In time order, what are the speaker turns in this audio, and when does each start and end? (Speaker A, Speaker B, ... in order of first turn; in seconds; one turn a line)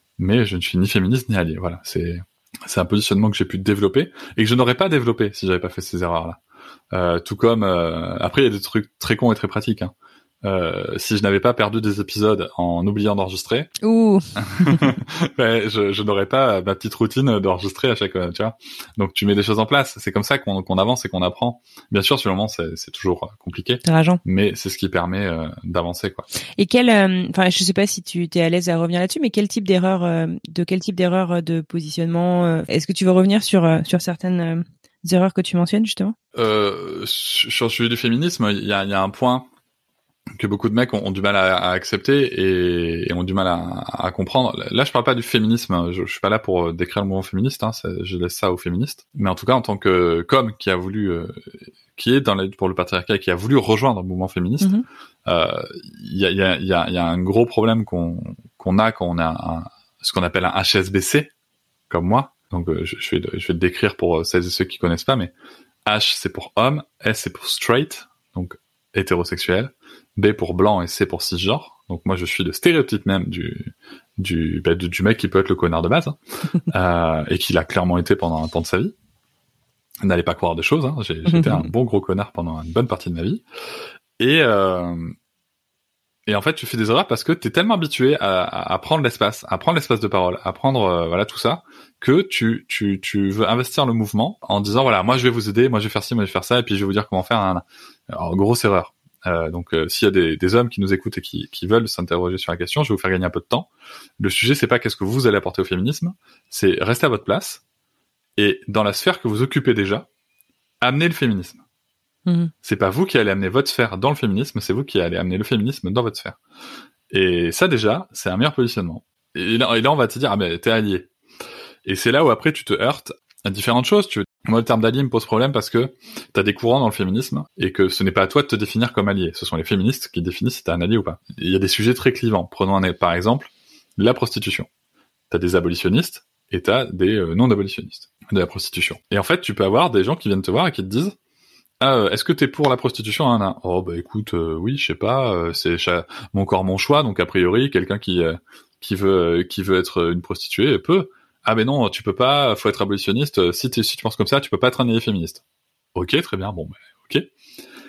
Speaker A: 0.2-6.4
Speaker A: 6.9-9.9
Speaker A: 10.4-13.7
Speaker B: 13.8-14.9
Speaker A: 14.4-26.3
Speaker B: 23.8-24.2
Speaker B: 26.6-36.1
Speaker A: 36.3-39.5
Speaker A: 40.3-54.7
Speaker A: 55.2-61.3
Speaker A: 61.9-65.3
Speaker A: 65.8-78.9
Speaker A: 80.0-83.4
Speaker B: 81.3-81.7
Speaker A: 84.2-85.2
Speaker A: 86.2-107.6
Speaker A: 108.4-110.1
Speaker A: 110.8-111.6
Speaker B: 112.2-112.5
Speaker A: 112.6-116.4
Speaker A: 117.1-121.1
Speaker A: 121.8-134.7
Speaker A: 135.3-141.2
Speaker A: 141.8-155.4
Speaker A: 155.9-157.3